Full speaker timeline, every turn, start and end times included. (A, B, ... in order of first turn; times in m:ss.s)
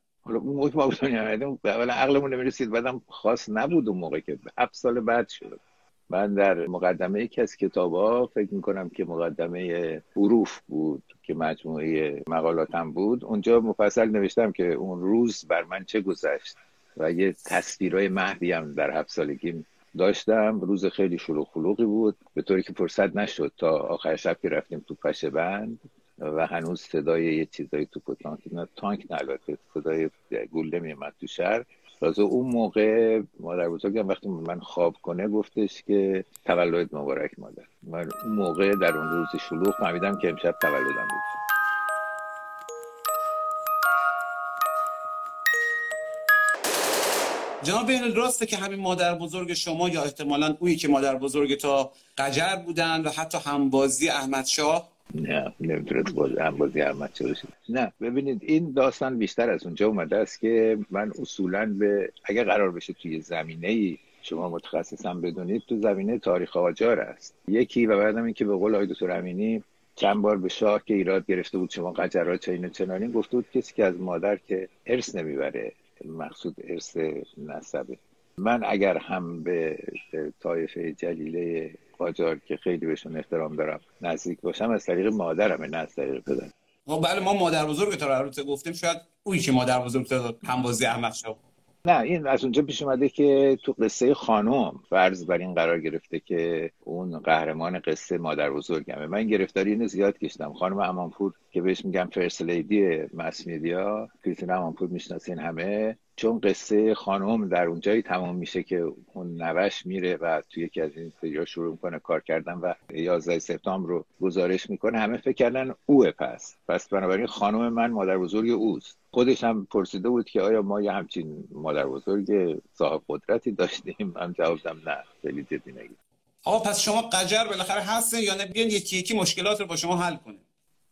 0:00.2-0:41.3 A
0:47.6-0:54.9 B
0:55.1-1:26.5 A
1:26.9-1:31.4 B
1:31.8-2:06.0 A
2:06.4-2:10.4 B